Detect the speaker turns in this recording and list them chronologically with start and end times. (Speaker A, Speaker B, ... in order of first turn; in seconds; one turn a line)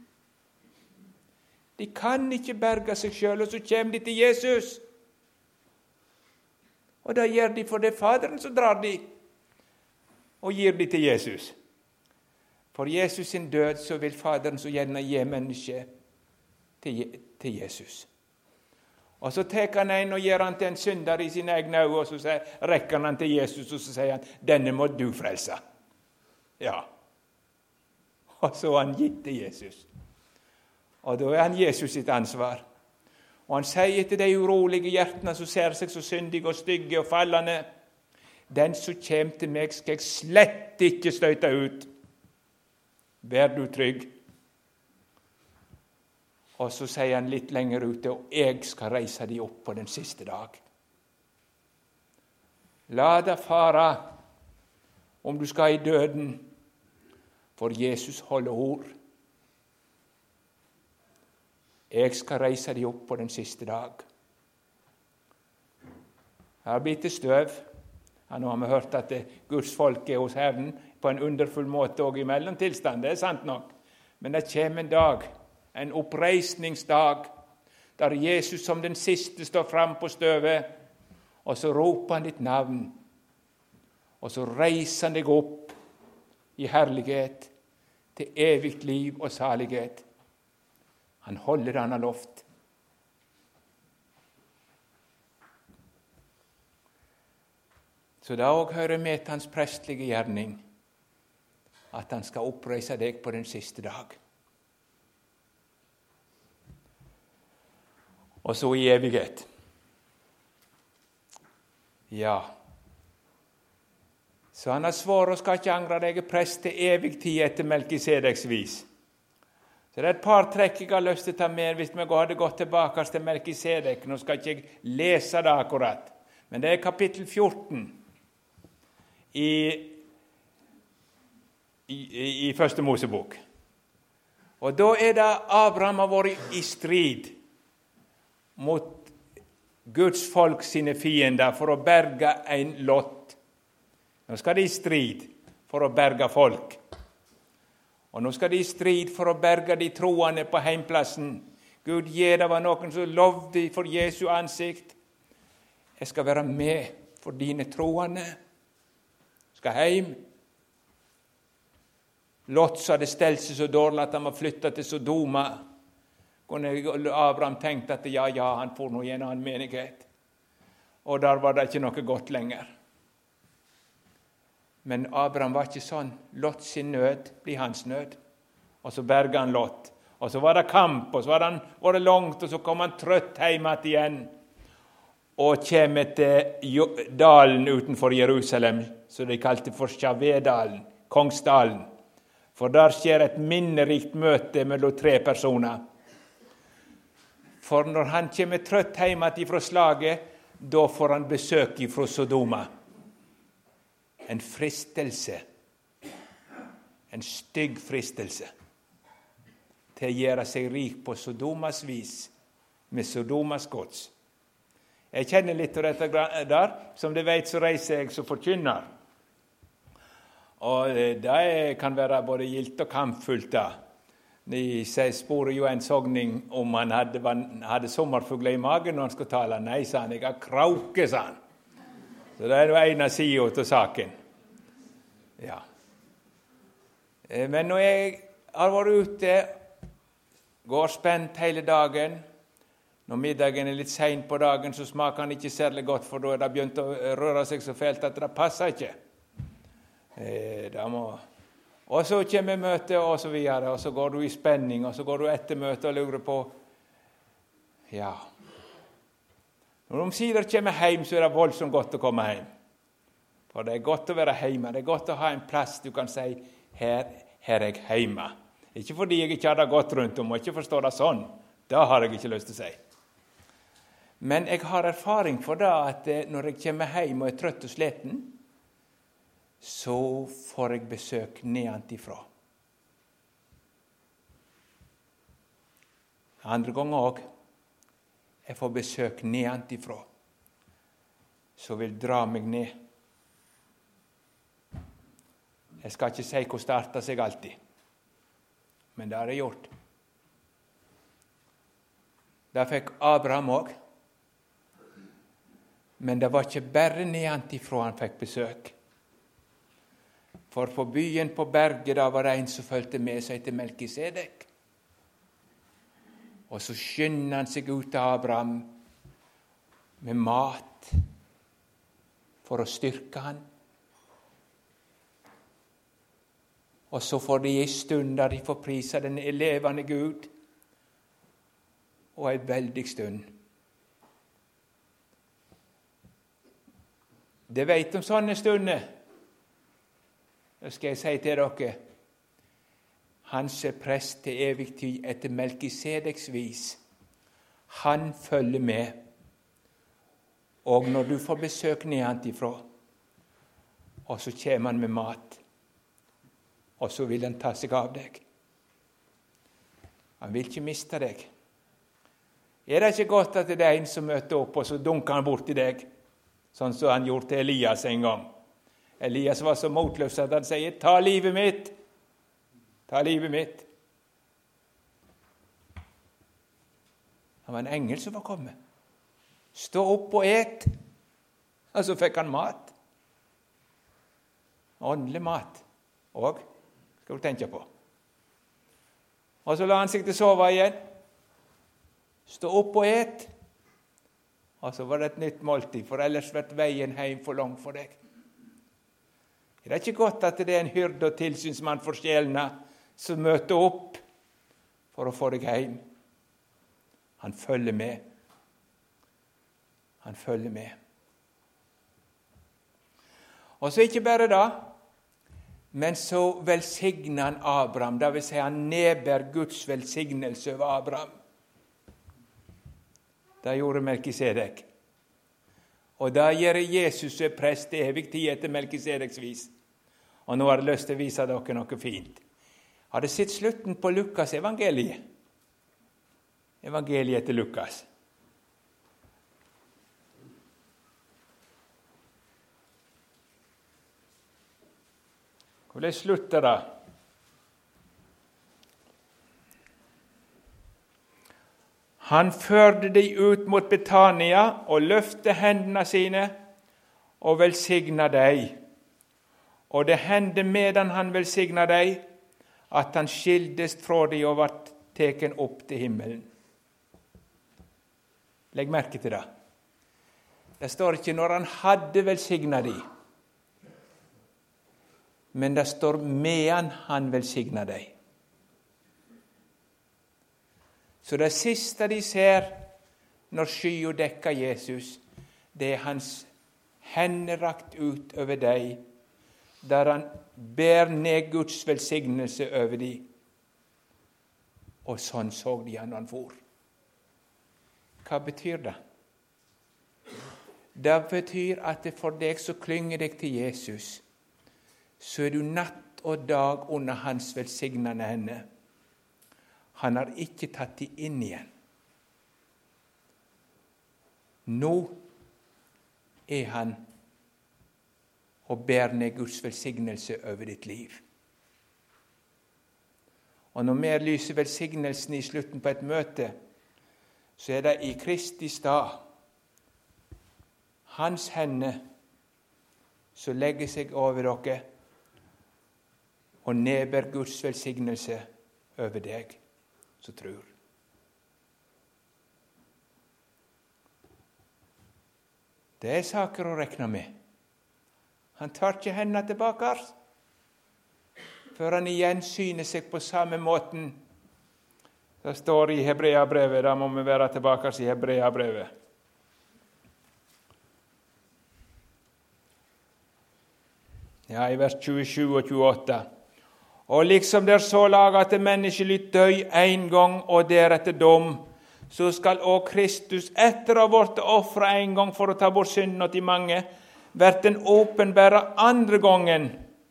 Speaker A: 1.8-4.8
Speaker A: 7.0-9.1
Speaker A: 10.4-11.5
Speaker A: 12.7-15.9
Speaker A: 16.8-18.1
Speaker A: 19.2-25.6
Speaker A: 26.6-26.9
Speaker A: 28.4-29.9
Speaker A: 31.0-32.6
Speaker A: 33.5-37.6
Speaker A: 38.5-41.9
Speaker A: 43.2-44.1
Speaker A: 46.6-50.6
Speaker A: 52.9-54.1
Speaker A: 55.2-56.5
Speaker A: 57.6-58.9
Speaker A: 61.9-64.0
Speaker A: 66.6-67.6
Speaker A: 68.3-77.3
Speaker A: 78.0-80.7
Speaker A: 81.4-82.9
Speaker A: 84.2-85.7
Speaker A: 86.6-87.5
Speaker A: 88.2-90.0
Speaker A: 91.2-92.4
Speaker A: 98.2-100.6
Speaker A: 101.9-104.2
Speaker A: 108.4-109.5
Speaker A: 112.1-112.5
Speaker A: 114.5-118.8
Speaker A: 119.9-128.0
Speaker A: 129.3-130.0
Speaker A: 131.9-133.4
Speaker A: 134.6-137.3
Speaker A: 138.6-139.1
Speaker A: 139.8-143.4
Speaker A: 144.3-146.8
Speaker A: 148.1-154.9
Speaker A: 156.0-158.3
Speaker A: 159.5-160.2
Speaker A: 162.5-165.6
Speaker A: 166.5-170.1
Speaker A: 171.0-172.7
Speaker A: 174.8-178.2
Speaker A: 178.8-184.3
Speaker A: 185.4-191.9
Speaker A: 192.5-195.8
Speaker A: 197.6-202.7
Speaker A: 204.2-205.4
Speaker A: 207.1-208.5
Speaker A: 209.9-212.3
Speaker A: 212.9-214.1
Speaker A: 215.1-218.9
Speaker A: 220.6-223.7
Speaker A: 224.4-231.4
Speaker A: 232.4-234.1
Speaker A: 237.3-239.5
Speaker A: 240.6-242.2
Speaker A: 243.1-248.9
Speaker A: 250.2-251.2
Speaker A: 251.9-256.5
Speaker A: 257.9-258.2
Speaker A: 259.9-262.5
Speaker A: 263.5-272.8
Speaker A: 274.2-278.4
Speaker A: 279.6-282.3
Speaker A: 286.4-287.2
Speaker A: 288.4-290.1
Speaker A: 291.6-292.7
Speaker A: 295.8-297.5
Speaker A: 298.9-299.7
Speaker A: 302.5-303.7
Speaker A: 306.0-308.7
Speaker A: 310.5-314.5
Speaker A: 316.5-318.7
Speaker A: 320.0-321.0
Speaker A: 322.4-323.4
Speaker A: 326.9-330.3
Speaker A: 332.1-333.3
Speaker A: 337.5-338.9
Speaker A: 340.6-341.8
Speaker A: 343.2-346.8
Speaker A: 347.7-349.0
Speaker A: 350.6-352.6
Speaker A: 354.1-355.4
Speaker A: 356.8-358.2
Speaker A: 360.2-361.3
Speaker A: 362.6-365.9
Speaker A: 366.5-368.3
Speaker A: 369.0-371.7
Speaker A: 372.9-373.7
Speaker A: 377.4-378.6
Speaker A: 379.5-380.7
Speaker A: 381.7-382.7
Speaker A: 384.8-386.4
Speaker A: 387.0-387.7
Speaker A: 389.4-390.8
Speaker A: 392.3-393.3
Speaker A: 394.6-398.0
Speaker A: 399.6-404.0
Speaker A: 404.9-405.8
Speaker A: 407.2-408.0
Speaker A: 410.0-410.8
Speaker A: 413.6-414.7
Speaker A: 415.7-421.1
Speaker A: 423.4-424.7
Speaker A: 426.0-429.5
Speaker A: 430.3-432.2
Speaker A: 432.9-435.0
Speaker A: 436.6-437.9
Speaker A: 445.7-446.6
Speaker A: 452.0-456.4
Speaker A: 457.2-458.6
Speaker A: 459.7-462.1
Speaker A: 462.7-466.3
Speaker A: 468.5-469.2
Speaker A: 470.6-472.8
Speaker A: 475.3-477.9
Speaker A: 481.0-482.7
Speaker A: 483.3-485.0
Speaker A: 485.5-486.3
Speaker A: 486.8-488.8
Speaker A: 489.6-493.0
Speaker A: 494.8-496.4
Speaker A: 498.0-498.8
Speaker A: 500.7-504.0
Speaker A: 505.0-508.4
Speaker A: 509.8-511.5
Speaker A: 514.5-515.0
Speaker A: 516.3-516.8
Speaker A: 518.5-521.0
Speaker A: 523.5-526.3
Speaker A: 527.4-529.0
Speaker A: 530.9-531.8
Speaker A: 533.1-534.6
Speaker A: 536.4-538.2
Speaker A: 538.8-539.4
Speaker A: 540.0-540.5
Speaker A: 545.8-547.1
Speaker A: 548.4-549.9
Speaker A: 551.5-554.0
Speaker A: 555.2-558.7
Speaker A: 564.3-566.0
Speaker A: 566.9-579.6